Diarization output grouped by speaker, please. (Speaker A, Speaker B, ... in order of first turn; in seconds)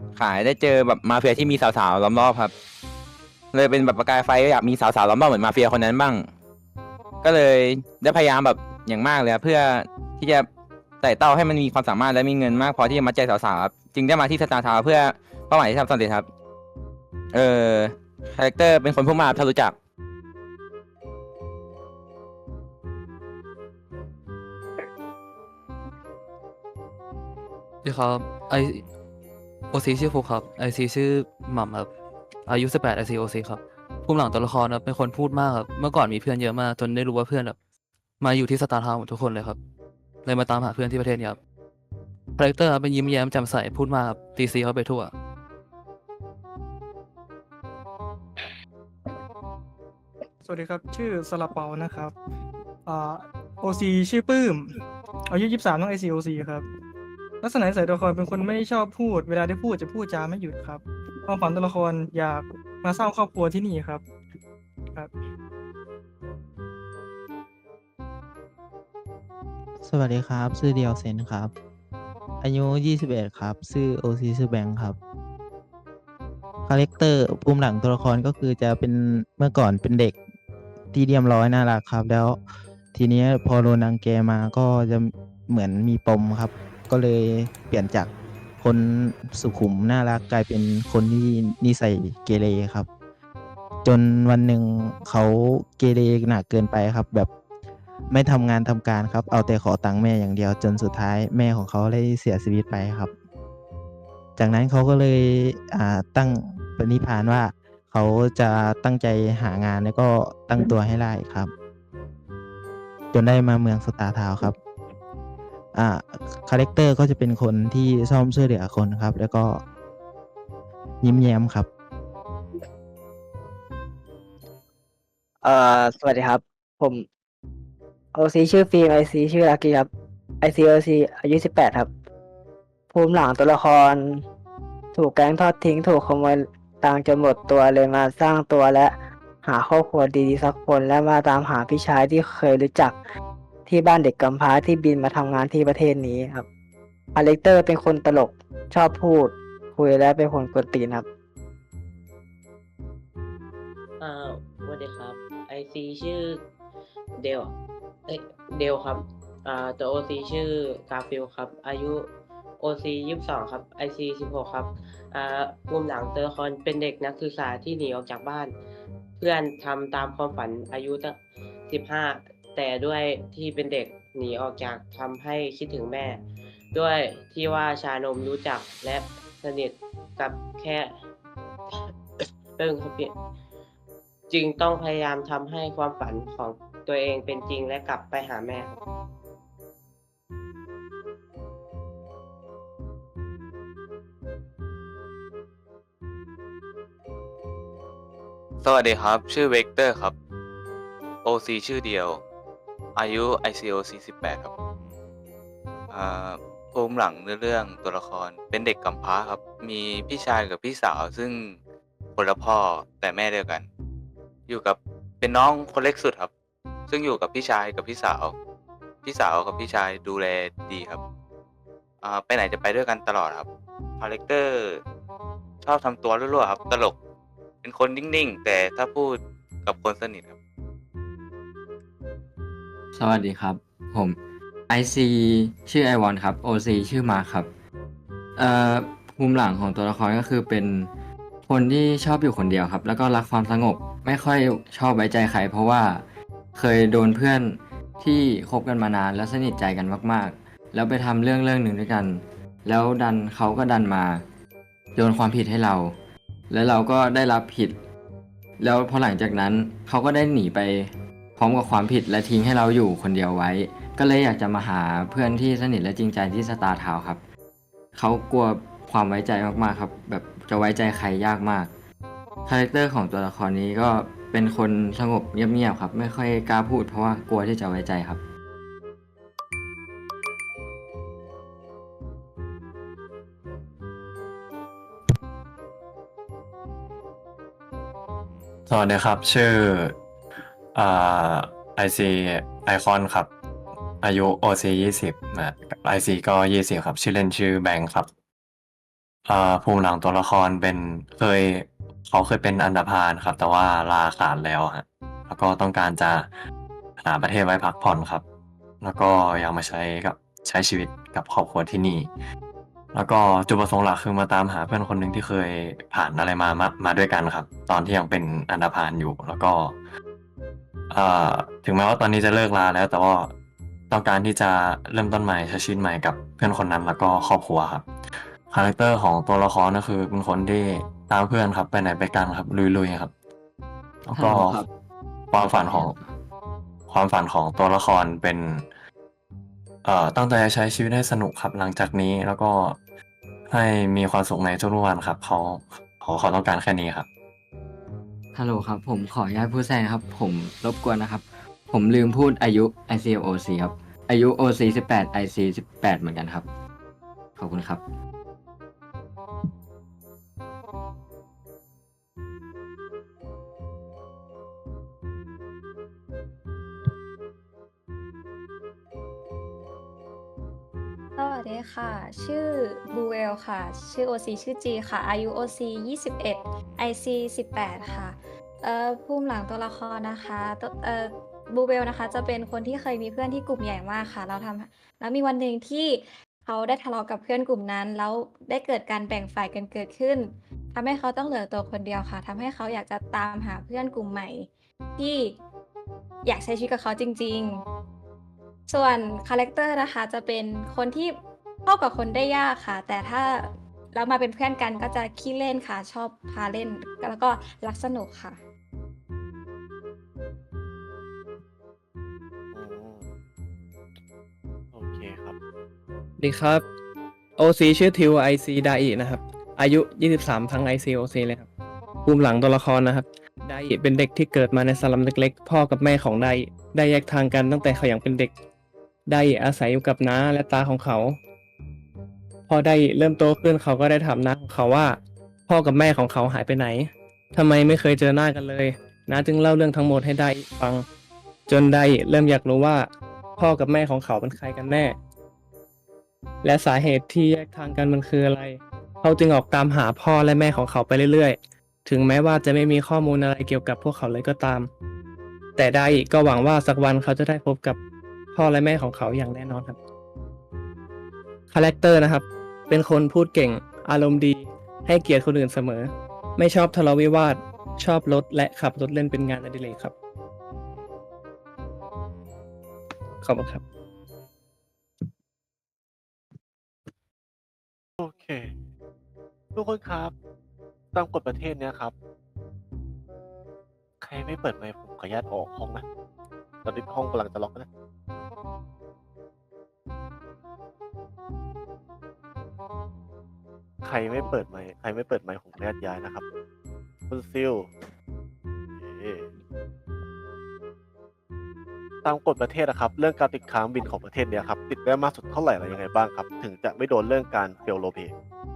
Speaker A: 0.2-2.5, 3.5-6.3, 7.2-10.5, 11.0-16.3, 17.3-19.8
Speaker B: 27.9-28.8, 29.8-31.9, 32.5-37.5, 38.3-39.6, 40.3-41.3, 42.4-45.1
Speaker C: 50.5-52.1, 52.9-54.6, 55.3-56.6, 57.4-64.0
Speaker D: 69.8-71.5, 72.4-75.0, 76.7-80.2, 80.9-82.4, 82.9-92.9, 93.8-97.3, 98.1-103.1, 104.4-111.5, 113.1-114.6, 115.8-119.6, 121.0-121.7
Speaker E: 125.4-127.1, 128.1-129.9, 130.4-131.9, 132.9-134.2, 134.9-143.0, 143.7-146.5, 147.2-151.1
Speaker F: 154.0-156.5, 157.1-157.6, 158.1-168.6, 169.2-181.0, 182.6-183.2, 184.3-188.8
Speaker G: 198.7-200.1, 201.3-202.2, 203.0-204.5, 205.9-211.5, 212.2-213.6, 214.5-216.3, 216.9-218.3, 219.1-221.0, 222.1-223.4, 224.0-224.7, 225.7-226.9, 227.7-229.2, 229.7-230.3
Speaker H: 232.9-234.2, 234.7-237.5, 238.4-240.9, 241.5-246.0, 246.6-254.2, 255.0-255.9, 256.5-257.8, 258.6-260.9, 261.4-267.2, 267.9-271.7, 272.5-278.2, 334.2-334.7, 335.4-336.2, 348.3-356.5, 357.4-357.8
Speaker I: 288.7-289.9, 290.7-293.3, 294.0-298.1, 299.3-306.3, 307.0-308.2, 308.8-312.1, 312.9-319.8, 320.9-323.3, 323.9-327.9, 328.5-333.1, 334.0-334.7, 335.3-336.0, 336.9-338.6, 339.8-342.8, 343.5-347.1
Speaker J: 371.2-395.4, 396.2-397.6, 398.7-408.4
Speaker K: 412.5-413.1, 414.7-415.4, 478.0-478.5, 479.6-480.1, 480.9-481.9, 484.0-485.8, 486.6-487.7, 493.8-496.2, 497.1-497.7, 498.8-499.3, 502.0-508.1
Speaker L: 416.2-416.6, 417.4-421.5, 422.1-428.3, 429.1-431.2, 432.5-440.9, 441.5-445.0, 446.4-454.7, 455.6-457.8, 458.3-459.8, 461.5-469.9, 473.2-473.6